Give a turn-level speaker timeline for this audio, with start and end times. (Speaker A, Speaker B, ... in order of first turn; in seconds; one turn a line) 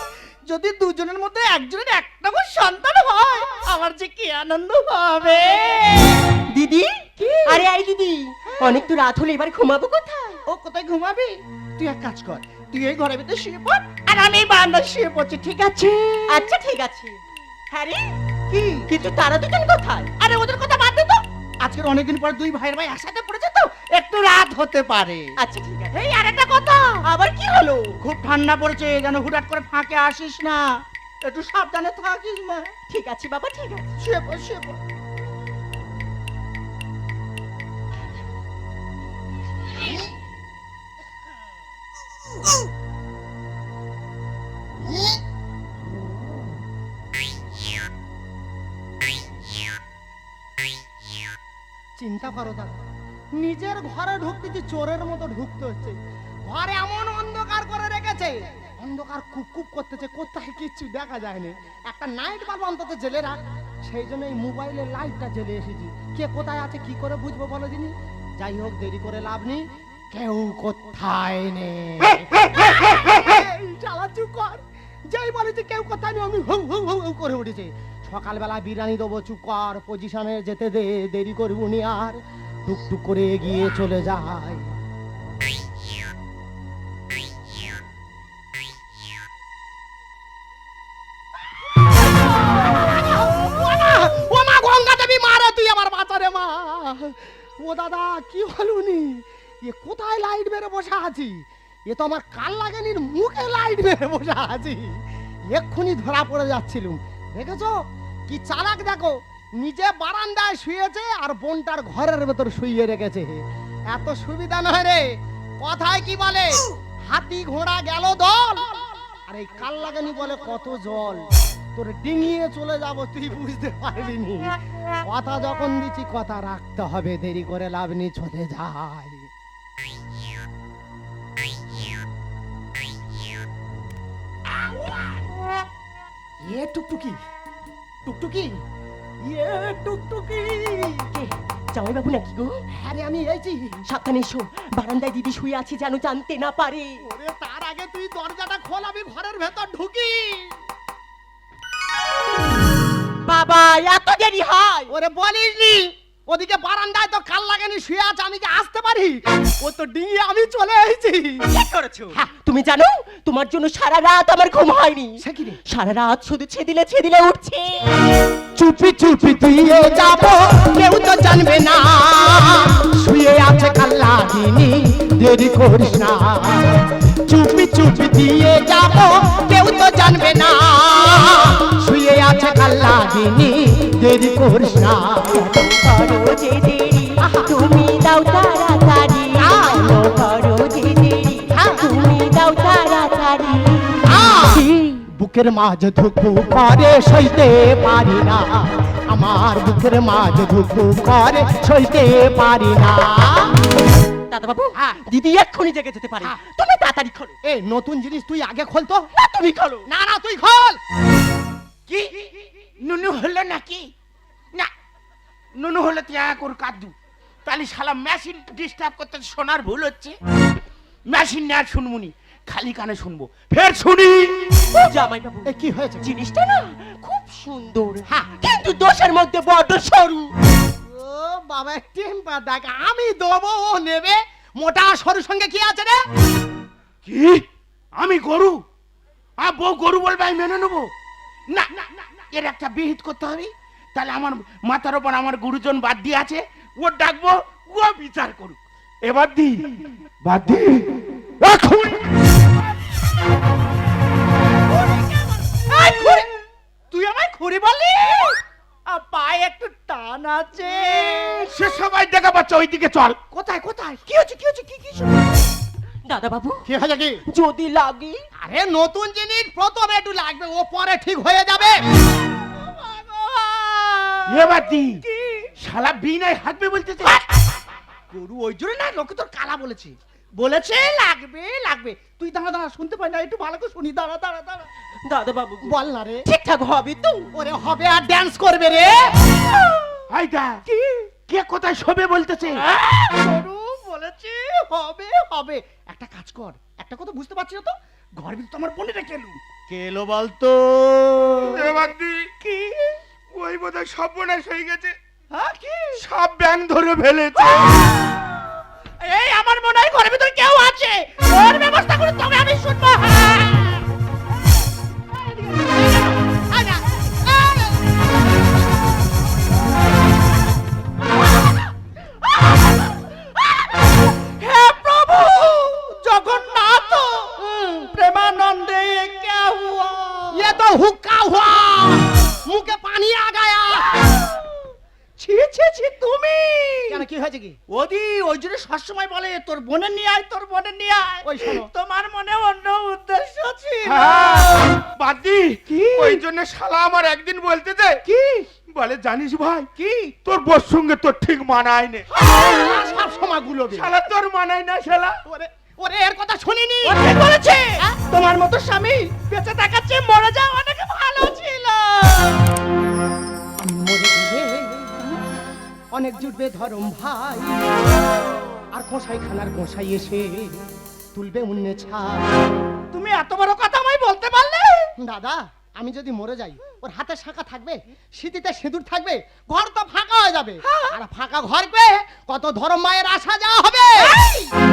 Speaker A: 0.5-6.3
Speaker B: 6.5-10.4
Speaker A: 7.2-7.6
Speaker A: 8.5-8.9
Speaker A: 10.4-16.5
Speaker B: 16.3-17.1
Speaker B: 17.7-18.1
Speaker A: 18.5-18.9
Speaker B: 18.9-20.1
Speaker A: 20.2-25.3
Speaker B: 25.4-26.0
Speaker A: 25.9-27.0
Speaker B: 27.0-27.9
Speaker A: 28.0-32.7
Speaker B: 32.9-33.9
Speaker A: 34.0-34.8
Speaker C: 52.0-52.8
Speaker C: 53.4-84.7
Speaker C: 92.7-105.0
Speaker C: 105.5-107.8
Speaker C: 108.3-115.0
Speaker C: 115.6-129.3
Speaker C: 136.5-137.2
Speaker C: 138.0-138.5
Speaker C: 139.2-141.1
Speaker B: 141.1-142.6
Speaker C: 142.7-143.8
Speaker B: 143.9-147.0
Speaker C: 147.0-150.6
Speaker B: 153.2-154.9
Speaker C: 154.9-161.5
Speaker B: 161.5-167.9
Speaker C: 165.2-165.6
Speaker C: 168.5-185.8
Speaker B: 185.5-195.0
Speaker C: 189.3-190.1
Speaker C: 191.5-191.9
Speaker C: 194.0-203.7
Speaker B: 204.3-207.3
Speaker C: 207.4-209.1
Speaker B: 209.1-209.9
Speaker C: 209.9-210.8
Speaker D: 211.9-213.9
Speaker D: 215.6-216.9
Speaker D: 217.4-220.2
Speaker D: 221.1-224.8
Speaker B: 224.8-230.3
Speaker C: 225.4-226.1
Speaker C: 230.8-236.0
Speaker D: 237.0-237.4
Speaker D: 238.0-238.6
Speaker D: 239.4-240.9
Speaker D: 241.5-250.9
Speaker A: 251.4-252.0
Speaker A: 254.7-256.3
Speaker A: 256.9-261.5
Speaker D: 261.4-263.2
Speaker A: 263.3-265.2
Speaker B: 266.1-266.6
Speaker C: 266.6-267.2
Speaker B: 267.3-268.2
Speaker C: 268.4-271.8
Speaker A: 272.1-275.5
Speaker D: 274.3-275.0
Speaker D: 275.6-277.1
Speaker A: 278.1-284.7
Speaker B: 285.1-285.7
Speaker C: 285.6-286.2
Speaker B: 286.2-287.3
Speaker C: 287.3-289.2
Speaker A: 289.3-290.0
Speaker D: 290.1-290.6
Speaker A: 290.7-291.1
Speaker D: 291.3-292.6
Speaker A: 292.6-295.4
Speaker C: 294.9-297.8
Speaker A: 298.2-301.8
Speaker D: 301.4-302.3
Speaker A: 302.4-303.0
Speaker D: 303.3-304.9
Speaker A: 305.3-306.0
Speaker D: 306.0-307.8
Speaker A: 307.5-308.2
Speaker A: 309.0-313.9
Speaker A: 315.2-317.8
Speaker A: 324.2-330.5
Speaker C: 330.3-334.1
Speaker A: 335.2-337.0
Speaker C: 336.9-337.6
Speaker A: 337.7-344.7
Speaker C: 341.2-341.7
Speaker D: 343.8-348.0
Speaker A: 345.7-346.2
Speaker A: 348.0-348.5
Speaker D: 348.7-349.7
Speaker A: 349.8-350.1
Speaker D: 350.2-352.1
Speaker A: 352.1-352.7
Speaker C: 352.3-353.9
Speaker D: 353.7-355.2
Speaker C: 355.2-357.0
Speaker A: 356.8-362.5
Speaker C: 363.6-364.9
Speaker C: 365.9-367.6
Speaker C: 368.7-372.2
Speaker A: 372.9-374.9
Speaker C: 375.0-384.2
Speaker A: 380.6-381.0
Speaker A: 384.0-384.5